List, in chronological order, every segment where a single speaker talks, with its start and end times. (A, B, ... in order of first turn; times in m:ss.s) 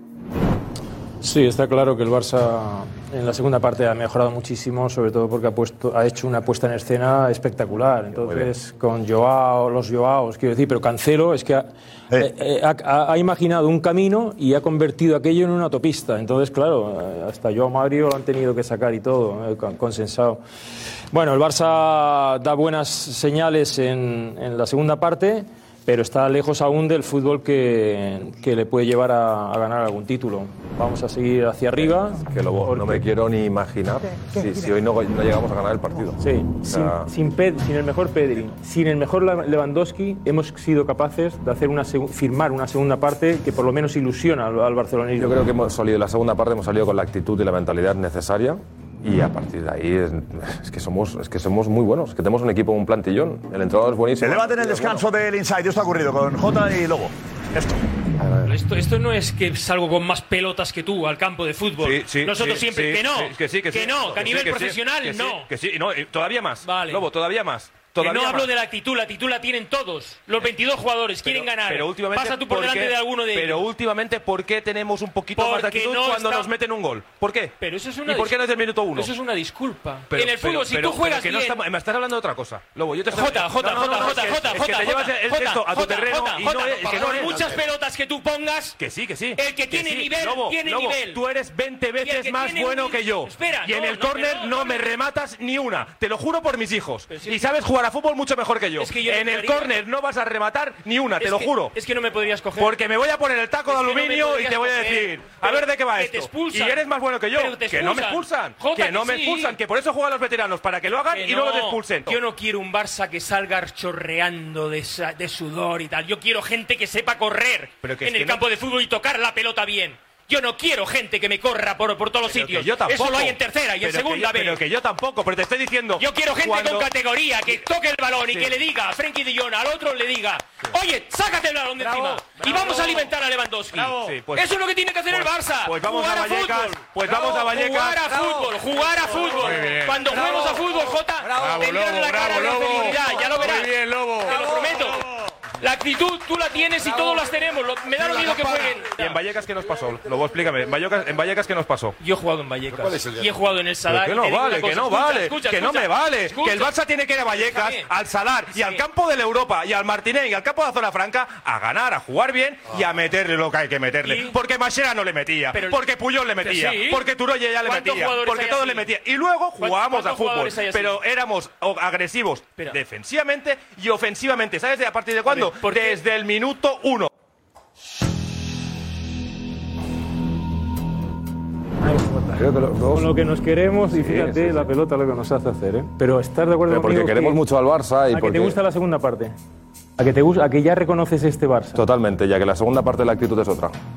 0:01.2-0:20.4 A
0:21.1-0:33.0 A
0:31.8-0:37.1 B
0:36.2-0:45.4 A
0:45.2-0:55.0 B
0:54.2-0:57.8 C
0:58.5-1:05.5 D
0:58.5-0:59.3 A
1:01.8-1:08.5 E
1:06.6-1:07.1 D
1:08.0-1:13.7 D
1:11.2-1:19.1 E
1:15.4-1:16.5 D
1:17.6-1:18.4 D
1:19.0-1:21.6 D
1:20.1-1:27.6 E
1:23.1-1:28.8 D
1:28.8-1:41.8 E
1:29.4-1:31.2 D
1:32.0-1:34.9 D
1:37.1-1:37.4 D
1:38.8-1:39.8 D
1:41.2-1:42.8 D
1:42.6-1:52.2 E
1:43.6-1:49.6 D
1:51.1-2:04.6 D
1:57.8-1:58.4 E
2:02.3-2:06.9 E
2:06.0-2:25.1 D
2:08.3-2:08.6 E
2:11.8-2:13.1 E
2:13.7-2:14.5 E
2:15.1-2:18.1 E
2:19.4-2:20.6 E
2:21.4-2:23.7 E
2:25.6-2:29.2 D
2:28.0-2:32.0 E
2:32.0-2:36.8 D
2:33.9-2:34.3 B
2:34.1-2:57.1 E
2:37.3-2:37.9 D
2:38.4-2:38.8 D
2:44.0-2:44.4 D
2:45.5-2:47.1 D
2:47.6-2:48.9 D
2:49.6-2:51.0 D
2:55.3-2:56.0 D
3:01.8-3:07.4 A
3:02.4-3:03.2 B
3:03.9-3:04.7 B
3:06.7-3:08.6 B
3:08.1-3:09.4 A
3:10.0-3:11.8 A
3:11.8-3:13.8 B